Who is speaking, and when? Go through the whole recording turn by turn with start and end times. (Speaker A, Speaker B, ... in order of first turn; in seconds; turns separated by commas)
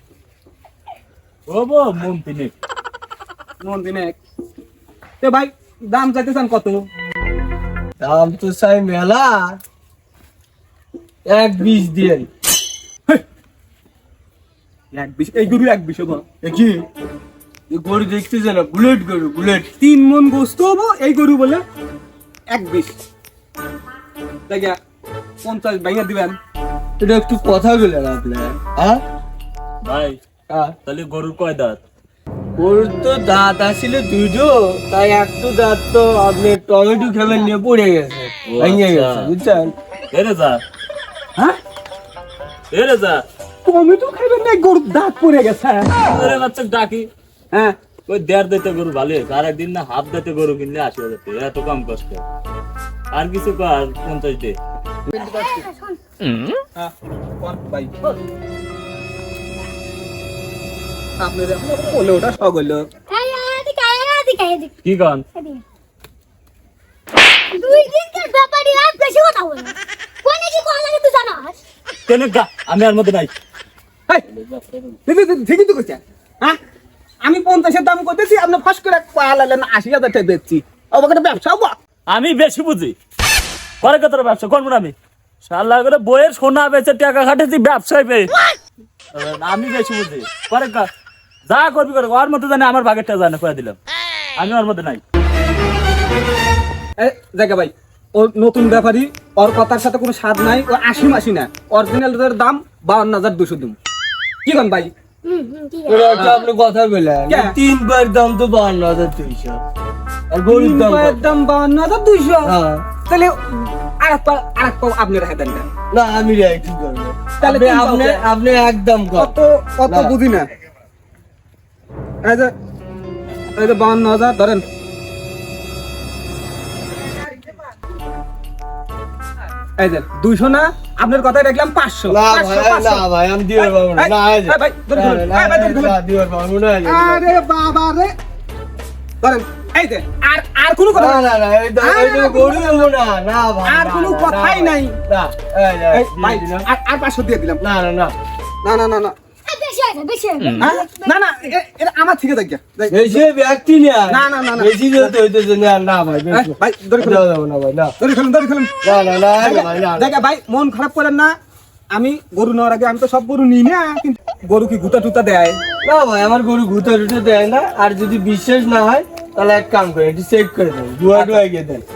Speaker A: 1.5-2.5, Speaker B: 3.6-4.2, Speaker B: 5.2-6.8, Speaker C: 8.0-9.6, Speaker C: 11.2-12.3, Speaker B: 14.9-16.2, Speaker C: 16.4-16.8, Speaker C: 17.7-19.7, Speaker B: 19.8-21.6, Speaker B: 22.5-22.9, Speaker B: 24.5-24.8, Speaker B: 25.4-26.4, Speaker C: 27.0-29.0, Speaker A: 29.8-30.2, Speaker C: 30.5-30.7, Speaker A: 30.9-31.8, Speaker C: 32.6-39.7, Speaker A: 38.5-39.3, Speaker A: 40.1-40.6, Speaker A: 42.7-43.2, Speaker B: 43.6-46.0, Speaker A: 46.1-47.1, Speaker A: 48.1-52.2, Speaker A: 53.1-54.5, Speaker B: 55.1-55.6, Speaker D: 55.1-56.0, Speaker B: 56.8-58.0, Speaker B: 61.2-62.9, Speaker D: 63.1-64.7, Speaker A: 64.8-65.2, Speaker D: 65.3-65.6, Speaker D: 67.5-71.6, Speaker A: 72.1-73.3, Speaker B: 75.0-76.6, Speaker B: 77.2-81.7, Speaker A: 82.1-82.9, Speaker A: 83.8-88.3, Speaker A: 89.1-90.9, Speaker A: 91.5-93.8, Speaker A: 94.3-95.0, Speaker B: 97.0-103.7, Speaker B: 104.4-104.9, Speaker D: 105.2-106.5, Speaker C: 105.9-109.6, Speaker B: 106.1-106.4, Speaker C: 110.3-111.3, Speaker B: 110.5-115.7, Speaker C: 112.4-112.9, Speaker C: 115.9-119.3, Speaker B: 117.4-118.2, Speaker B: 119.2-120.5, Speaker C: 119.8-120.2, Speaker B: 122.2-122.5, Speaker B: 123.5-124.6, Speaker B: 129.8-133.0, Speaker C: 132.1-137.3, Speaker B: 133.6-136.0, Speaker B: 136.9-138.1, Speaker B: 139.2-141.2, Speaker C: 140.9-146.7, Speaker B: 141.8-142.9, Speaker B: 143.7-144.9, Speaker B: 145.9-147.6, Speaker C: 147.6-148.1, Speaker B: 148.6-149.2, Speaker D: 149.5-151.3, Speaker B: 150.6-153.2, Speaker C: 152.9-157.9, Speaker B: 154.1-155.1, Speaker B: 156.3-157.2, Speaker B: 158.0-158.7, Speaker C: 158.8-160.2, Speaker B: 159.4-161.3, Speaker B: 161.9-165.6, Speaker C: 165.8-171.8, Speaker B: 171.1-171.4